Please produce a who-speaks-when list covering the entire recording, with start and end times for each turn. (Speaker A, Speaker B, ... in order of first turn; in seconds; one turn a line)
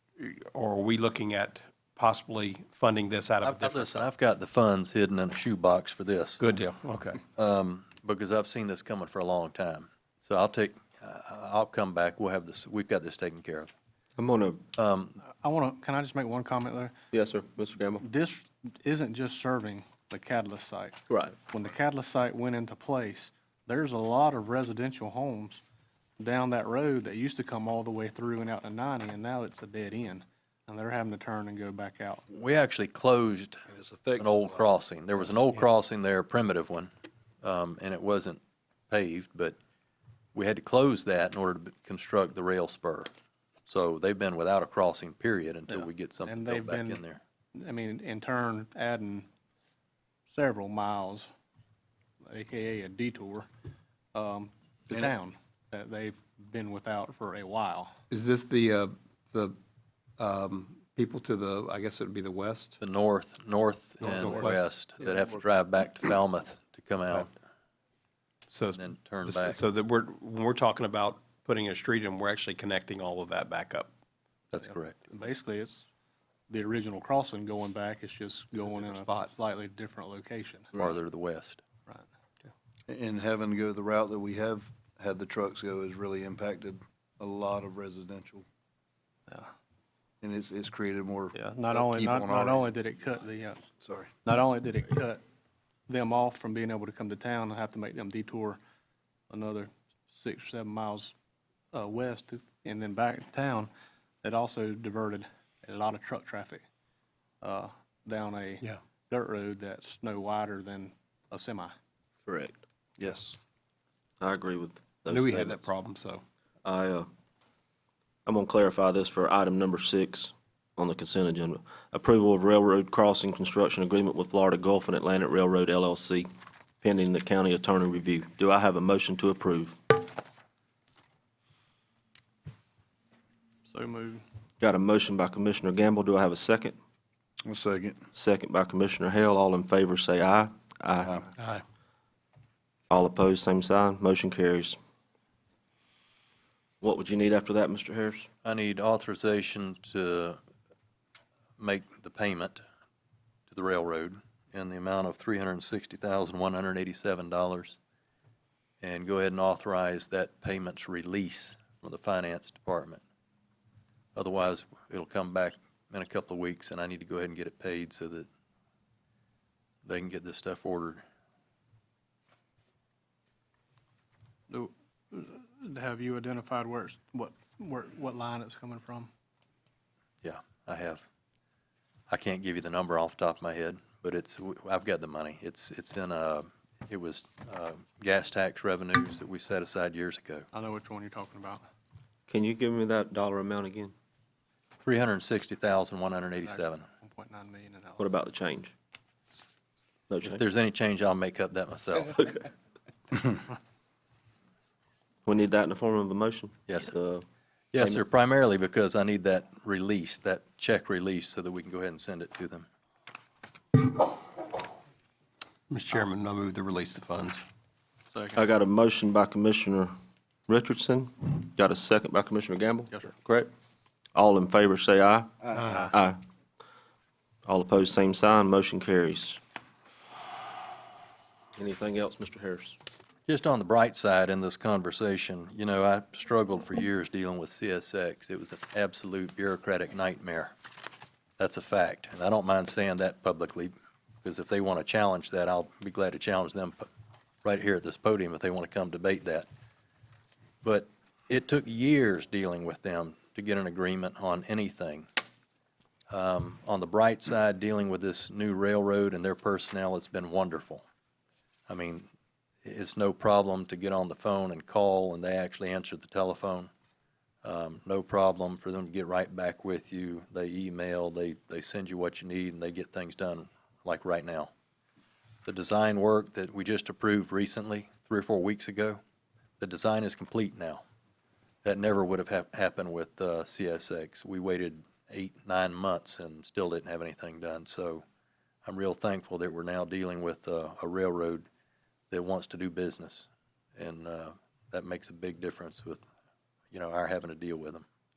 Speaker A: 0.2-4.1
Speaker B: 3.4-6.4
Speaker A: 6.4-7.2
Speaker B: 7.4-13.7
Speaker C: 14.2-14.6
Speaker B: 14.8-15.2
Speaker D: 15.2-16.9
Speaker C: 17.1-18.0
Speaker D: 18.0-25.6
Speaker C: 21.1-21.4
Speaker D: 26.2-32.2
Speaker B: 32.3-33.6
Speaker E: 33.7-34.6
Speaker B: 34.2-36.9
Speaker B: 37.4-39.6
Speaker B: 40.4-43.1
Speaker B: 43.7-47.2
Speaker D: 45.7-47.0
Speaker D: 47.5-49.3
Speaker D: 50.3-51.3
Speaker D: 52.2-53.5
Speaker D: 54.1-57.9
Speaker A: 58.1-59.6
Speaker A: 60.2-62.8
Speaker B: 62.8-67.3
Speaker A: 64.0-64.7
Speaker A: 68.5-73.9
Speaker B: 68.8-69.6
Speaker B: 74.5-75.0
Speaker D: 74.6-75.9
Speaker D: 76.5-80.7
Speaker A: 78.6-79.3
Speaker B: 80.7-81.6
Speaker E: 82.9-88.5
Speaker E: 90.2-92.7
Speaker D: 91.3-93.6
Speaker E: 93.8-94.1
Speaker D: 94.2-95.2
Speaker D: 95.9-98.6
Speaker D: 99.3-101.1
Speaker D: 101.7-103.7
Speaker D: 104.2-106.6
Speaker D: 107.4-111.7
Speaker C: 112.3-112.6
Speaker E: 113.0-113.4
Speaker C: 114.2-115.7
Speaker A: 115.1-116.2
Speaker C: 116.6-117.1
Speaker C: 118.3-126.3
Speaker C: 126.8-129.8
Speaker D: 133.7-134.2
Speaker C: 134.6-136.8
Speaker E: 137.4-138.0
Speaker C: 138.1-141.1
Speaker E: 141.0-141.3
Speaker C: 142.9-144.8
Speaker C: 146.8-148.3
Speaker B: 148.4-150.4
Speaker B: 151.6-152.6
Speaker B: 153.5-157.8
Speaker B: 158.8-163.0
Speaker B: 164.2-168.3
Speaker B: 169.8-171.0
Speaker D: 174.5-179.1
Speaker B: 180.2-181.0
Speaker B: 182.1-190.5
Speaker D: 190.5-191.6
Speaker C: 192.3-193.9
Speaker B: 194.8-196.8
Speaker D: 196.4-198.1
Speaker C: 198.0-198.7
Speaker C: 200.1-200.4
Speaker B: 200.2-202.4
Speaker C: 205.3-207.3
Speaker B: 206.7-206.9
Speaker B: 207.7-212.7
Speaker A: 215.7-217.4
Speaker D: 218.1-218.4
Speaker C: 218.3-219.9
Speaker C: 220.5-223.5
Speaker C: 224.1-226.2
Speaker C: 227.5-229.4
Speaker C: 231.6-232.8
Speaker B: 233.3-240.5
Speaker B: 241.4-246.9
Speaker B: 247.4-249.5
Speaker B: 250.6-255.1
Speaker B: 256.1-260.8
Speaker B: 261.7-262.1
Speaker B: 262.6-266.7
Speaker B: 267.4-274.5
Speaker B: 275.5-279.0
Speaker B: 279.6-280.8
Speaker B: 281.6-288.0
Speaker B: 288.6-291.5
Speaker B: 292.1-296.0
Speaker B: 296.7-297.9